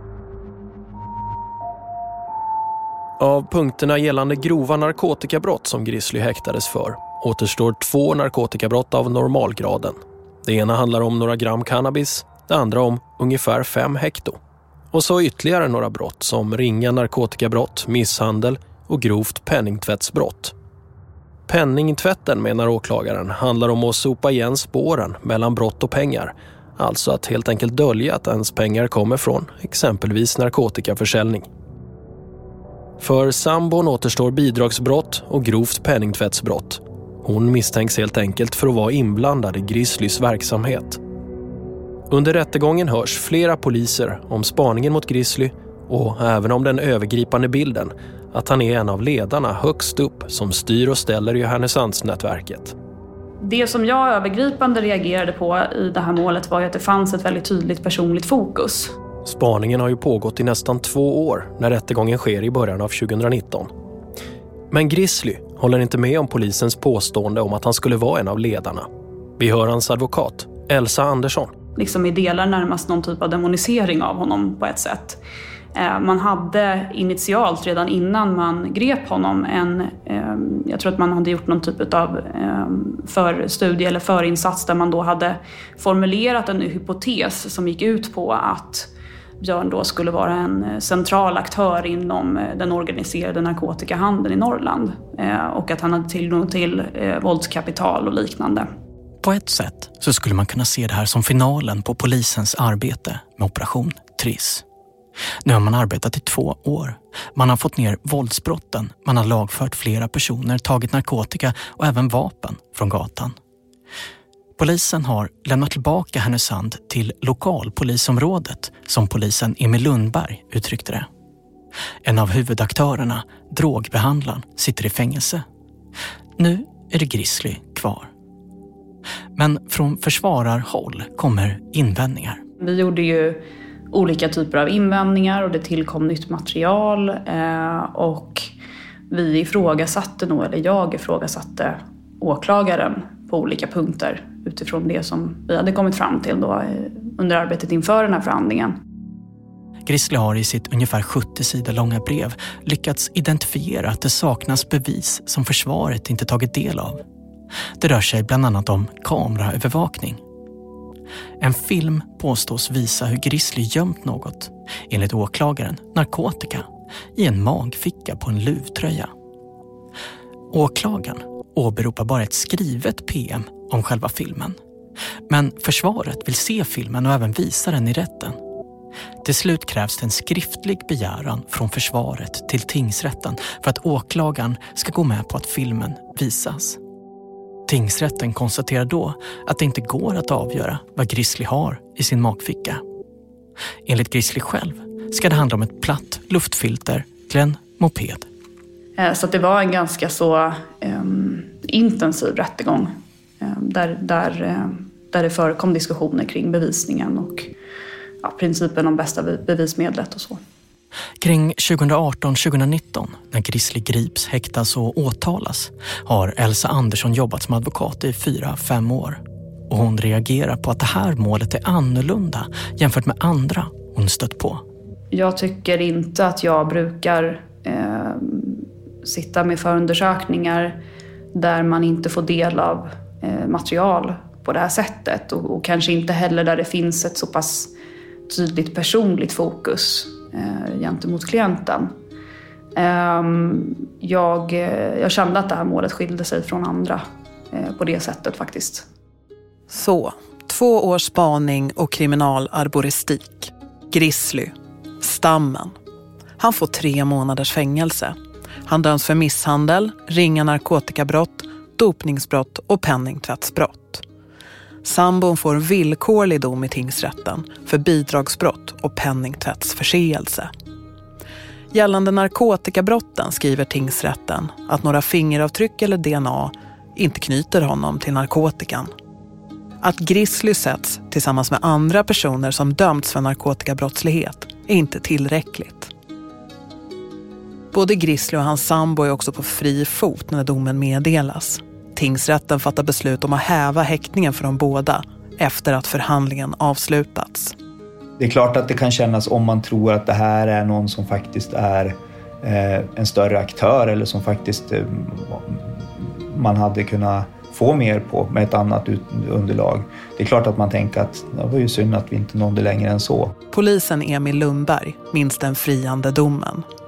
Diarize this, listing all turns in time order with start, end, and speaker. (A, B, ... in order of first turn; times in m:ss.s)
0:03.2-0:14.4 A
0:14.9-0:20.5 A
0:21.5-0:31.5 A
0:33.0-0:41.0 A
0:42.1-0:52.7 A
0:53.4-0:58.9 B
0:59.2-1:03.7 A
1:04.7-1:08.9 A
1:09.4-1:11.5 A
1:11.8-1:15.2 B
1:15.7-1:38.7 B
1:39.2-1:44.6 C
1:45.4-1:53.4 C
1:54.6-2:01.1 C
2:02.0-2:05.4 C
2:06.4-2:08.1 C
2:09.4-2:12.4 C
2:12.6-2:18.5 B
2:19.1-2:28.8 B
2:29.8-2:37.0 C
2:37.8-2:40.2 C
2:41.4-2:49.1 C
2:50.5-2:54.6 C
2:55.3-2:58.4 C
2:59.2-3:06.8 C
3:07.7-3:12.8 C
3:13.8-3:18.2 C
3:19.0-3:27.5 B
3:28.2-3:30.4 B
3:31.2-3:44.6 C
3:45.1-3:50.8 B
3:51.3-3:57.7 B
3:58.3-4:01.9 B
4:02.8-4:08.8 B
4:09.7-4:15.7 D
4:16.4-4:18.2 D
4:18.7-4:24.0 D
4:24.8-4:30.5 D
4:31.7-4:38.9 D
4:39.8-4:45.9 D
4:47.7-4:57.5 D
4:58.2-5:13.3 E
5:13.5-5:16.6 D